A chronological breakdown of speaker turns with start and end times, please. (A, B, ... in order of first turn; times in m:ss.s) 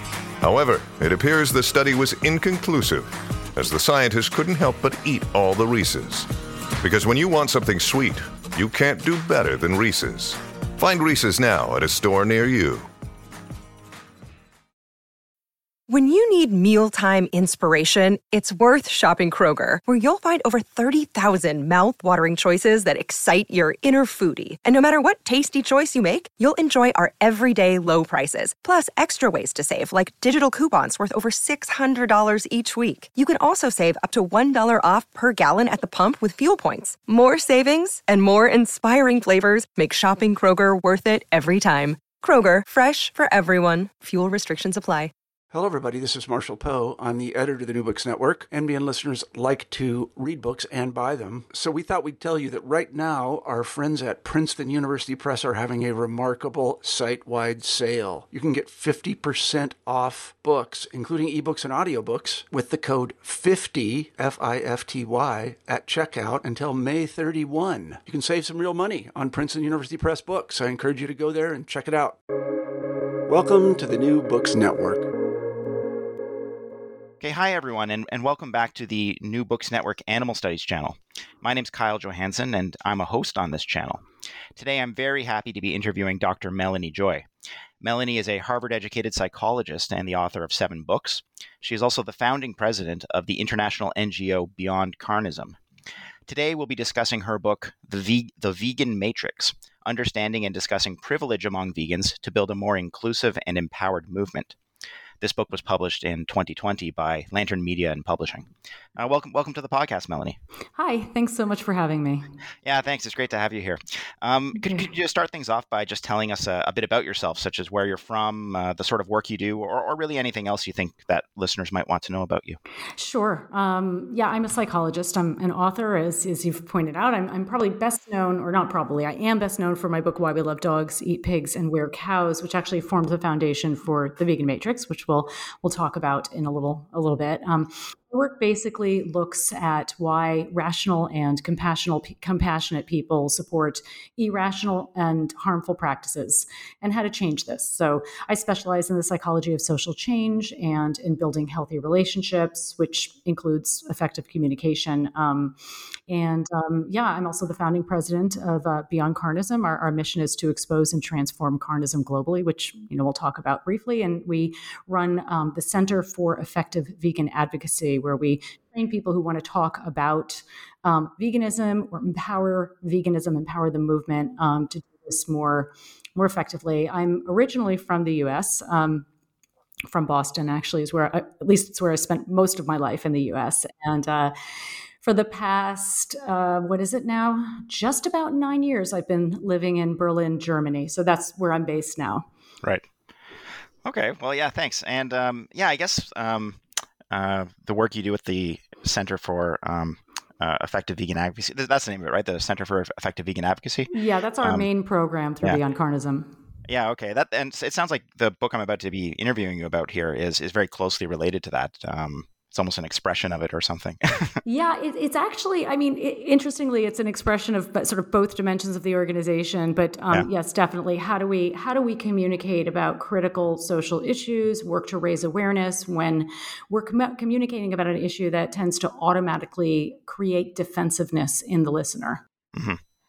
0:00.4-0:12.9 A
0:15.9-0:45.1 B
0:45.5-1:12.2 C
1:13.3-1:15.1 C
1:17.2-1:24.0 D
1:24.6-1:27.2 D
1:27.8-1:35.6 D
1:36.3-1:44.6 D
1:45.2-1:50.4 D
1:50.8-1:52.3 E
1:52.6-2:02.6 D
1:54.6-1:54.9 E
2:03.0-2:35.6 E
2:36.1-2:59.1 E
2:59.9-3:04.3 E
3:05.0-3:12.3 E
3:13.8-3:23.9 D
3:23.9-3:26.3 E
3:24.4-3:24.7 D
3:26.7-3:34.4 D
3:34.4-3:52.2 E
3:52.6-3:52.8 D